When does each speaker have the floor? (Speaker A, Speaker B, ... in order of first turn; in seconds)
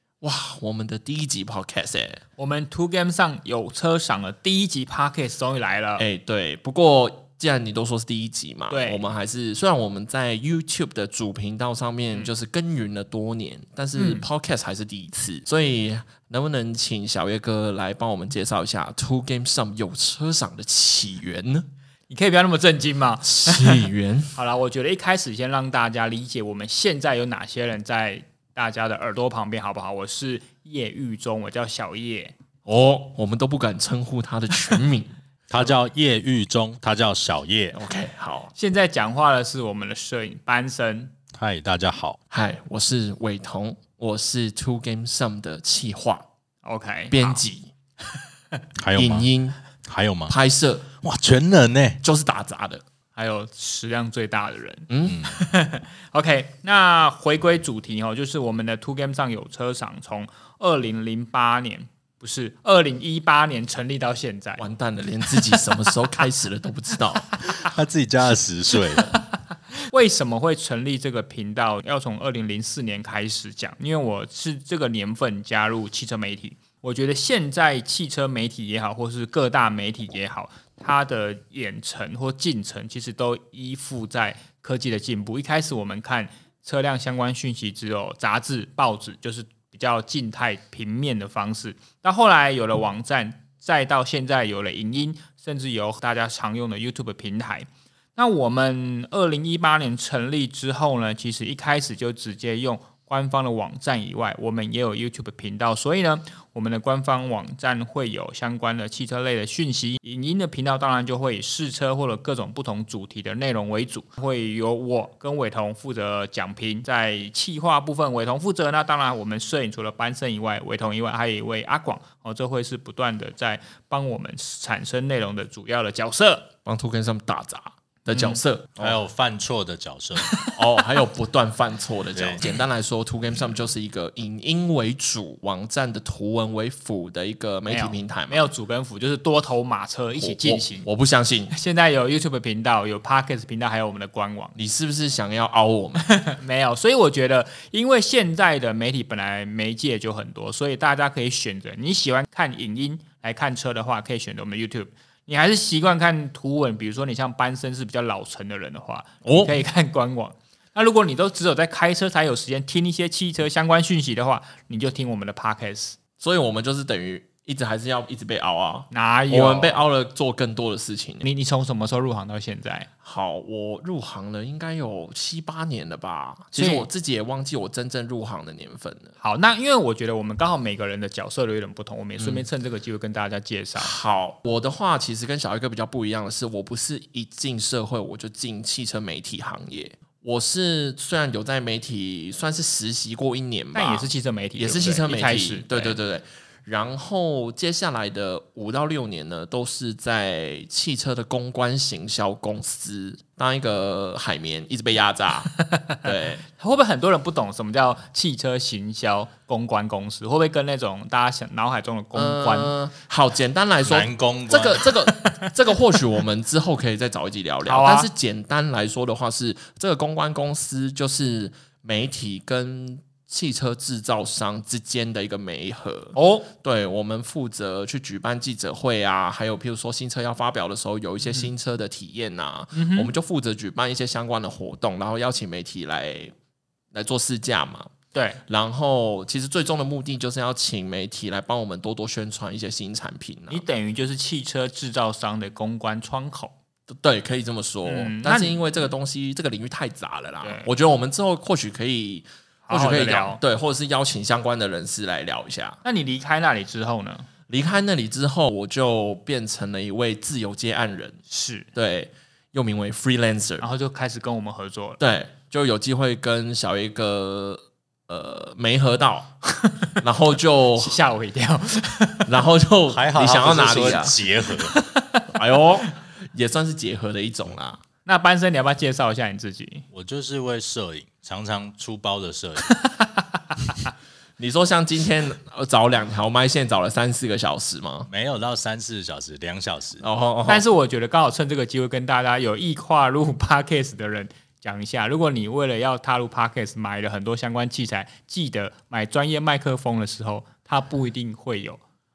Speaker A: 0.2-2.2, 6.0-21.7, 23.2-24.3, 32.6-35.1, 37.7-38.5, 42.3-46.2, 47.1-47.7, 49.0-49.6, 50.3-50.9, 52.0-52.8, 54.9-55.2, 64.6-67.4, 126.7-129.0, 130.5-138.4, 140.2-141.5, 144.6-146.1, 159.2-159.6, 166.2-171.2, 173.0-179.1, 182.2-182.4, 183.8-206.4, 212.1-236.3, 236.9-237.9, 238.5-243.6, 246.9-255.8, 257.5-261.2, 261.7-263.6, 265.0-269.3, 270.0-271.0, 272.2-274.1, 275.3-277.8, 284.4-288.1, 290.0-290.6
Speaker B: 2.4-6.0, 8.7-9.0, 14.0-14.2, 22.1-32.3, 38.5-41.1, 46.6-47.4, 53.1-64.6, 65.3-65.6, 69.2-126.5, 128.1-128.4, 137.7-140.9, 141.5-144.5, 146.1-166.0, 168.9-169.8, 171.2-172.9, 176.6-176.8, 179.2-183.9, 193.7-196.0, 205.6-212.7, 215.1-215.5, 217.6-218.1, 226.1-226.5, 232.7-233.1, 238.1-238.4, 243.5-246.5, 247.8-248.6, 250.4-250.7, 252.7-253.4, 255.8-257.3, 261.3-261.7, 263.6-265.0, 269.6-269.9, 270.8-272.3, 274.7-275.2, 278.1-279.8, 282.8-283.9, 290.4-301.8
Speaker C: 35.5-37.7, 41.3-42.2, 48.8-49.2, 49.9-50.3, 51.0-52.0, 55.0-55.4, 67.6-69.1, 128.8-130.4, 132.1-132.6, 213.8-214.9, 272.9-274.8, 279.9-282.8, 288.1-290.0